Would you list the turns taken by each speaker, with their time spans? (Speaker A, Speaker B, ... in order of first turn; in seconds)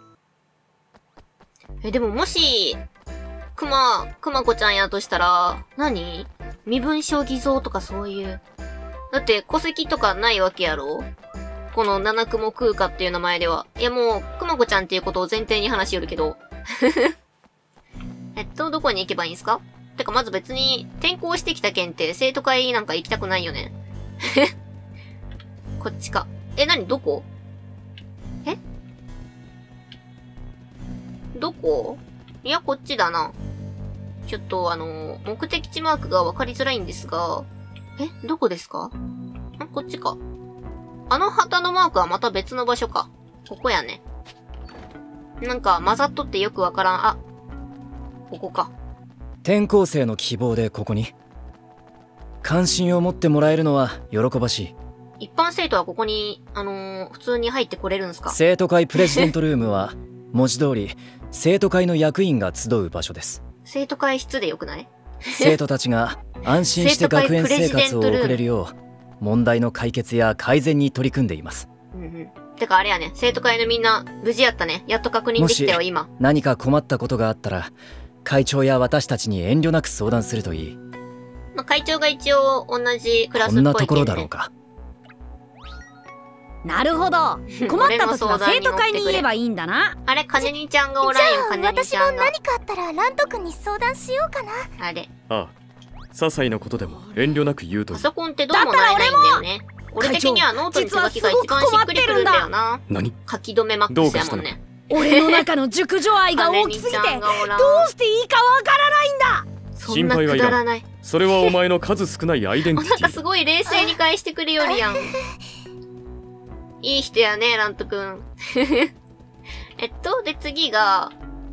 Speaker A: 1.8-2.8, 3.5-8.4, 9.1-11.1, 11.7-17.1, 18.3-24.5, 25.8-27.3, 31.3-33.3, 34.3-37.5, 38.0-38.9, 39.6-40.2, 41.1-44.0, 45.4-47.2, 48.3-48.7, 55.2-58.4, 63.6-65.5, 66.7-68.4, 71.9-76.1, 81.5-84.3, 87.5-89.3, 90.0-92.3, 94.8-95.1, 97.9-105.4, 106.3-107.9, 109.8-110.8, 112.7-115.1, 116.8-118.9, 119.8-121.1
Speaker B: 49.4-51.1, 52.4-54.7, 58.3-63.4, 65.3-71.7, 75.4-80.8, 83.4-84.5
Speaker C: 86.6-90.0, 98.5-99.4, 100.0-102.5, 104.9-109.4
Speaker D: 91.0-94.7, 113.7-113.9, 114.6-115.2
Speaker E: 96.1-98.1, 102.9-103.1, 103.9-104.5, 109.9-113.2